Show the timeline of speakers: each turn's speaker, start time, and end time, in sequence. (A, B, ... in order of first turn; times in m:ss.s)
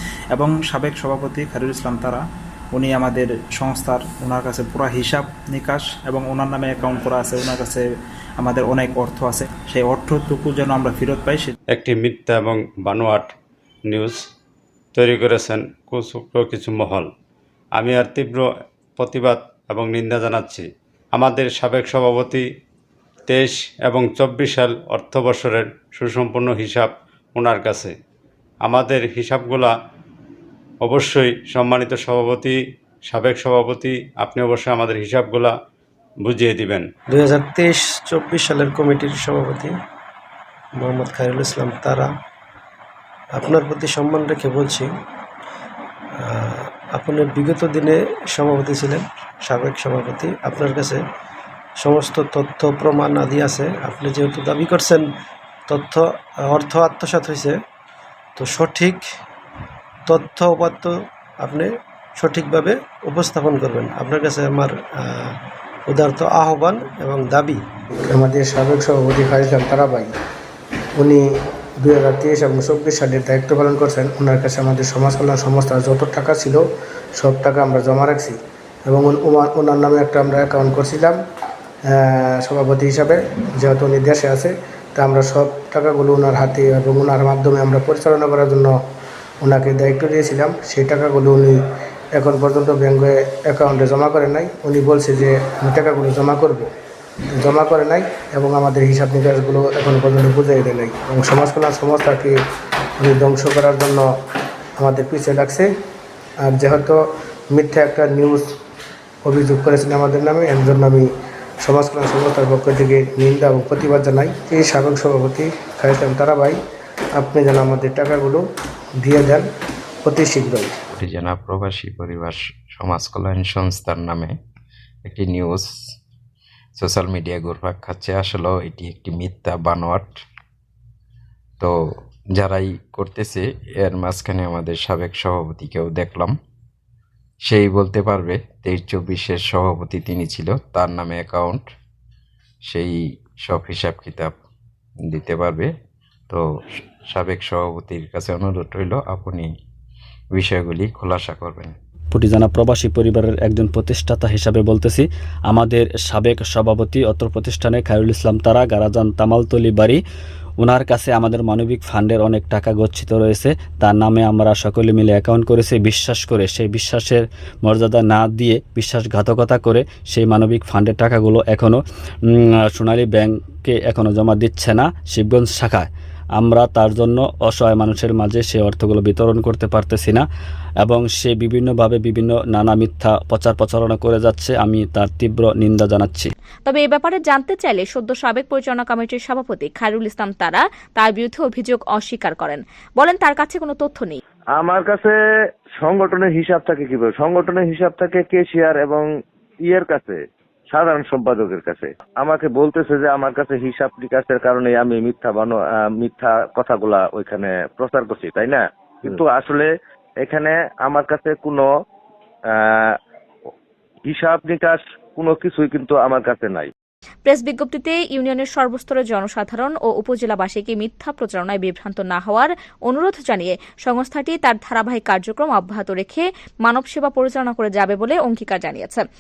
0:00.3-0:07.8 A
0:08.4-0:11.5 A
0:11.7-0:13.3 B
0:13.9-0:14.2 B
0:15.0-0:17.1 B
0:17.8-0:18.5 B
0:19.0-0:22.5 B
0:23.3-0:27.9 B
0:28.6-0:29.7 B
0:30.8-0:35.5 B
0:36.2-0:36.9 B
0:37.1-0:39.8 C
0:40.8-0:42.1 C
0:43.4-0:44.9 C
0:46.2-0:51.0 C
0:51.8-0:55.1 C
0:55.7-0:57.6 C
0:58.4-0:59.0 C
1:00.1-1:07.6 C
1:08.1-1:10.1 D
1:11.0-1:11.2 D
1:11.8-1:16.6 D
1:17.2-1:21.2 D
1:21.9-1:28.7 D
1:29.4-1:31.6 D
1:32.1-1:36.7 D
1:37.3-1:42.4 D
1:43.0-1:44.1 D
1:44.8-1:45.7 D
1:46.4-1:48.5 D
1:49.2-1:51.1 D
1:51.6-1:56.6 D
1:57.2-1:58.4 D
1:59.0-1:59.5 D
2:00.0-2:00.7 D
2:00.9-2:04.4 E
2:05.0-2:05.7 E
2:06.8-2:10.2 E
2:12.3-2:16.4 E
2:17.5-2:21.7 E
2:22.7-2:24.4 E
2:25.0-2:25.7 E
2:27.1-2:29.5 E
2:30.4-2:31.8 E
2:32.1-2:40.0 F
2:40.6-2:51.8 F
2:52.3-3:00.2 F
3:00.8-3:06.3 F
3:06.7-3:14.2 G
3:14.6-3:15.2 H
3:15.8-3:19.1 H
3:19.6-3:29.7 H
3:30.2-3:31.7 H
3:32.6-3:33.0 H
3:34.1-3:36.7 H
3:37.2-3:49.0 G